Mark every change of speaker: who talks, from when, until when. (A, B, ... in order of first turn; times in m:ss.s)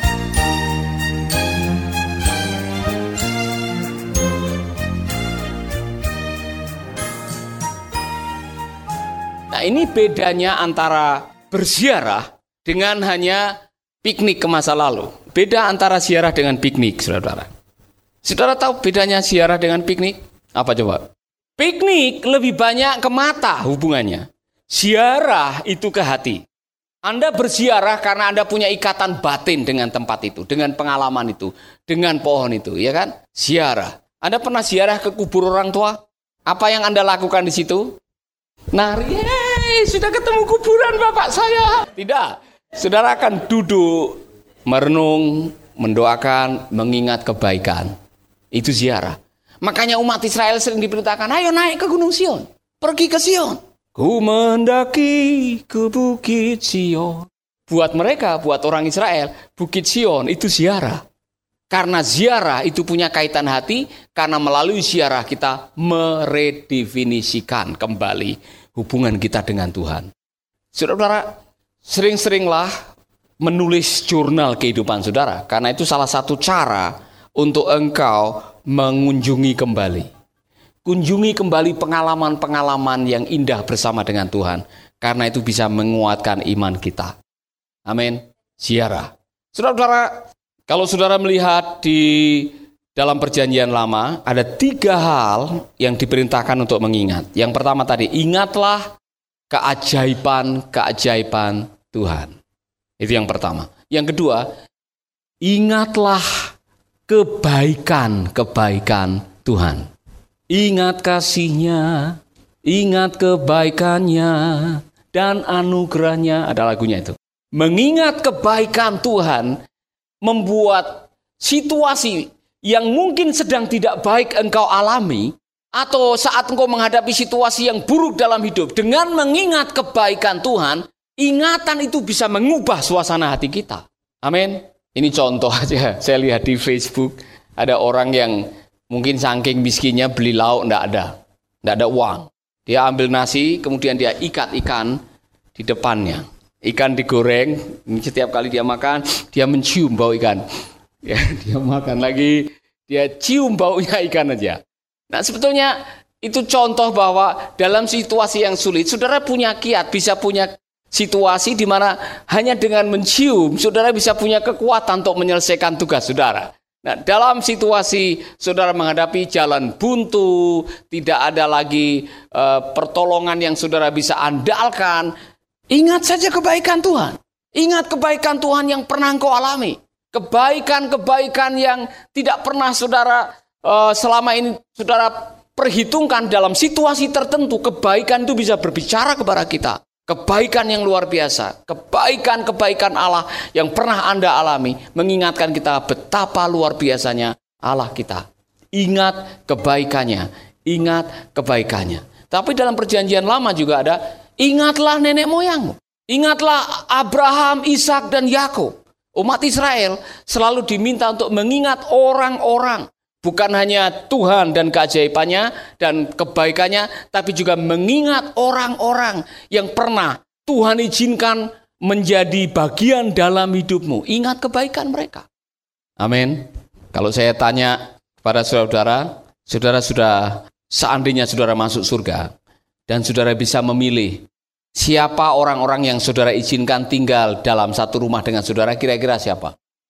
0:09.5-0:13.5 A
0:14.0-0:17.5 A
0:18.2-0:21.1 A
0:21.6-0:26.4 A
0:27.0-0:38.0 A
0:38.7-0:47.9 A
0:48.5-1:01.0 A
1:01.7-1:10.1 A
1:10.7-1:11.3 A
1:11.8-1:12.7 A
1:13.4-1:20.1 A
1:20.8-1:27.1 A
1:27.9-1:38.9 A
1:39.5-1:42.3 A
1:43.0-1:44.5 A
1:45.4-1:46.5 A
1:47.1-1:49.8 A
1:50.5-1:59.6 A
2:00.2-2:25.0 A
2:25.6-2:30.4 A
2:31.0-2:55.1 A
2:55.7-3:45.3 A
3:46.0-3:52.3 A
3:52.9-3:54.2 A
3:54.8-3:59.5 A